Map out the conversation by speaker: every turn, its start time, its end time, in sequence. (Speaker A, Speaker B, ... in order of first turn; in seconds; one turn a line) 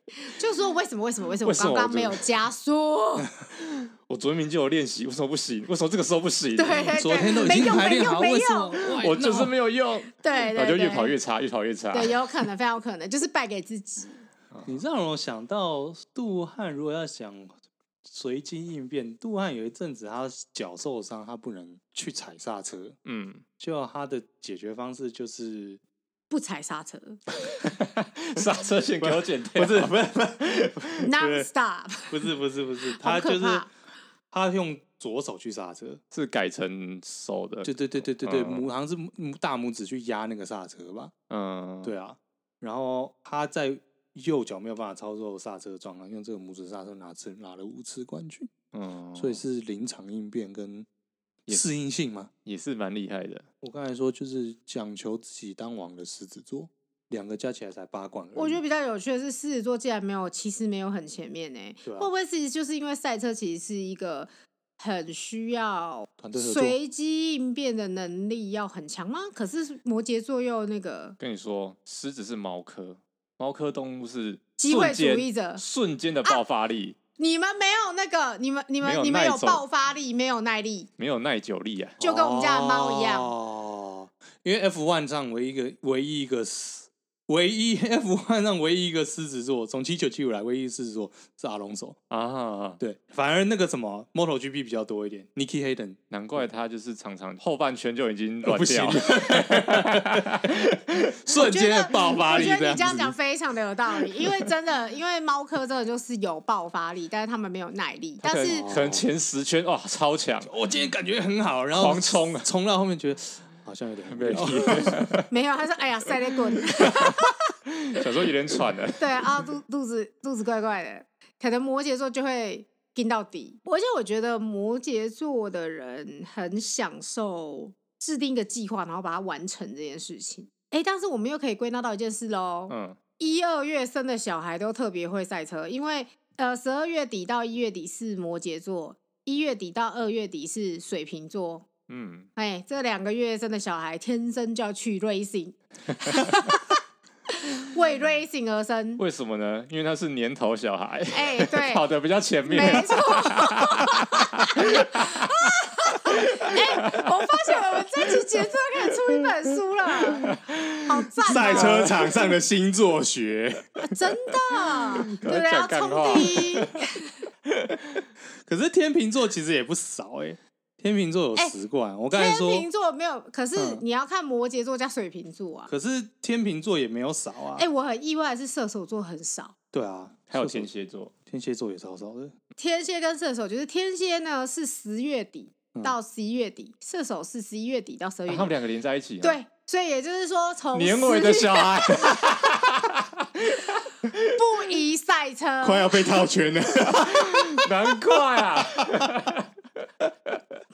Speaker A: 0.2-3.3
Speaker B: 1.4-2.2
Speaker B: 3.6-7.5
Speaker A: 6.6-8.9
Speaker C: 6.9-9.5
Speaker B: 8.9-12.2
Speaker A: 10.1-11.2
Speaker A: 11.9-14.2
Speaker B: 14.5-14.8
Speaker C: 14.7-23.0
Speaker B: 23.1-23.4
Speaker C: 23.6-25.8
Speaker A: 26.3-27.2
Speaker B: 27.6-30.9
Speaker C: 29.0-31.5
Speaker A: 31.0-32.1
Speaker C: 32.1-33.7
Speaker A: 33.0-33.7
Speaker C: 34.3-36.0
Speaker B: 36.1-38.7
Speaker C: 37.6-41.1
Speaker B: 41.3-41.9
Speaker C: 41.8-48.5
Speaker B: 48.7-49.4
Speaker C: 49.2-50.9
Speaker C: 51.5-52.3
Speaker B: 52.5-53.5
Speaker C: 53.6-58.6
Speaker A: 58.4-71.2
Speaker C: 61.9-62.1
Speaker C: 66.2-66.8
Speaker B: 71.2-77.0
Speaker A: 74.6-75.6
Speaker A: 77.2-80.9
Speaker B: 78.8-79.7
Speaker B: 81.0-82.0
Speaker A: 82.0-83.3
Speaker C: 82.0-92.0
Speaker B: 92.1-92.8
Speaker C: 92.8-96.4
Speaker B: 96.1-101.1
Speaker C: 98.4-103.2
Speaker A: 101.4-108.7
Speaker B: 108.2-110.5
Speaker C: 108.5-109.0
Speaker C: 110.4-115.1
Speaker B: 111.8-112.5
Speaker B: 114.1-115.3
Speaker A: 115.3-117.4
Speaker B: 117.9-119.1
Speaker A: 119.0-141.7
Speaker B: 132.7-133.0
Speaker B: 141.9-142.3
Speaker A: 142.4-146.8
Speaker A: 147.3-149.0
Speaker B: 149.0-155.6
Speaker A: 151.1-151.9
Speaker A: 152.5-162.1
Speaker B: 156.1-157.1
Speaker B: 160.2-162.2
Speaker C: 161.3-163.8
Speaker A: 163.8-167.1
Speaker B: 165.0-166.8
Speaker B: 167.5-168.0
Speaker C: 168.4-172.7
Speaker A: 172.1-175.7
Speaker C: 173.6-173.8
Speaker C: 175.7-177.7
Speaker A: 177.6-179.5
Speaker C: 179.7-180.7
Speaker B: 180.3-181.1
Speaker C: 181.3-182.3
Speaker A: 182.6-188.5
Speaker B: 188.3-189.4
Speaker A: 189.2-192.2
Speaker B: 190.7-194.2
Speaker A: 194.3-196.0
Speaker C: 195.6-198.2
Speaker B: 196.9-199.5
Speaker C: 198.8-199.1